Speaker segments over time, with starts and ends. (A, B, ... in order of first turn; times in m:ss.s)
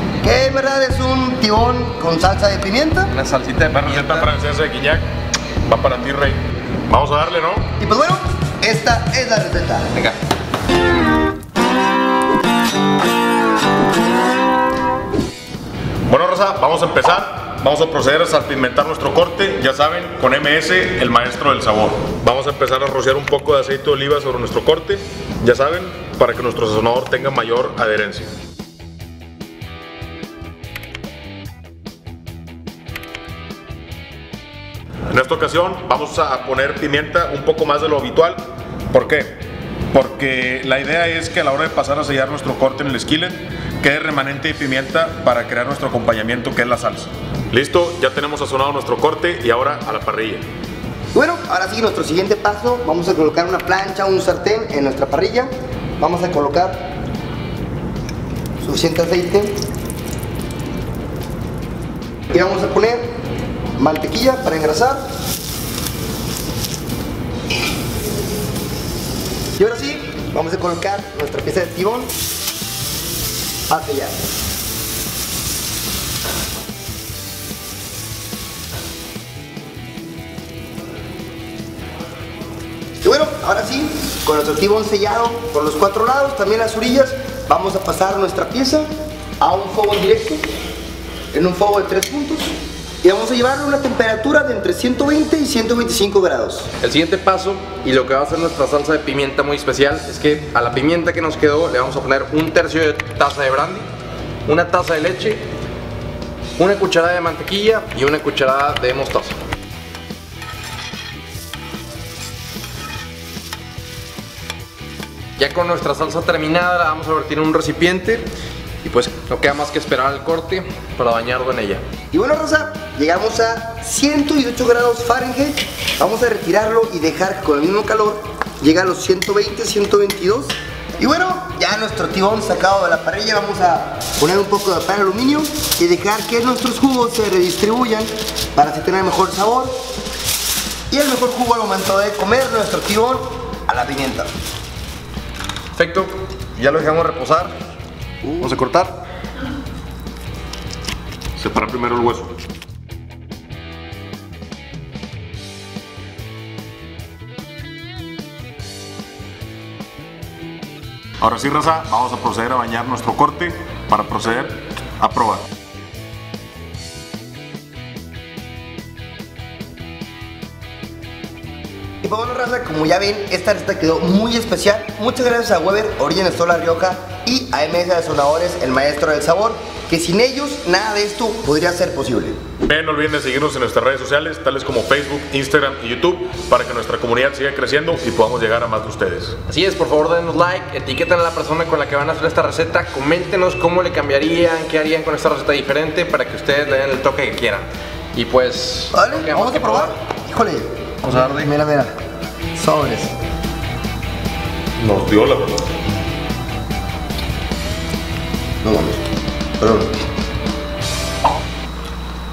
0:00.2-0:03.1 A
0:03.1-0:04.3 B
0:03.7-0:05.1 C
0:05.6-0:07.7 C
0:07.8-0:09.9 A
0:16.1-0:28.3 C
0:35.1-0:39.4 C
0:39.9-0:50.4 C
0:51.1-0:56.8 A
0:58.6-0:59.6 A
1:02.3-1:03.0 A
1:03.8-1:05.0 A
1:09.6-1:12.1 A
1:13.7-1:14.2 A
1:23.0-1:30.4 A
1:31.3-1:36.7 A
1:36.8-1:43.9 B
1:44.4-1:45.4 B
1:46.6-1:49.4 B
1:55.4-1:58.3 B
1:58.8-2:01.8 B
2:02.1-2:19.8 A
2:20.9-2:24.3 A
2:25.7-2:27.5 B
2:28.4-2:29.0 B
2:31.4-2:32.3 C
2:41.2-2:45.4 C
2:52.0-3:02.4 A
3:02.6-3:09.4 C
3:09.5-3:19.9 B
3:18.9-3:21.9 A
3:22.5-3:23.1 A
3:24.8-3:25.6 C
3:28.6-3:29.0 A
3:29.6-3:29.9 A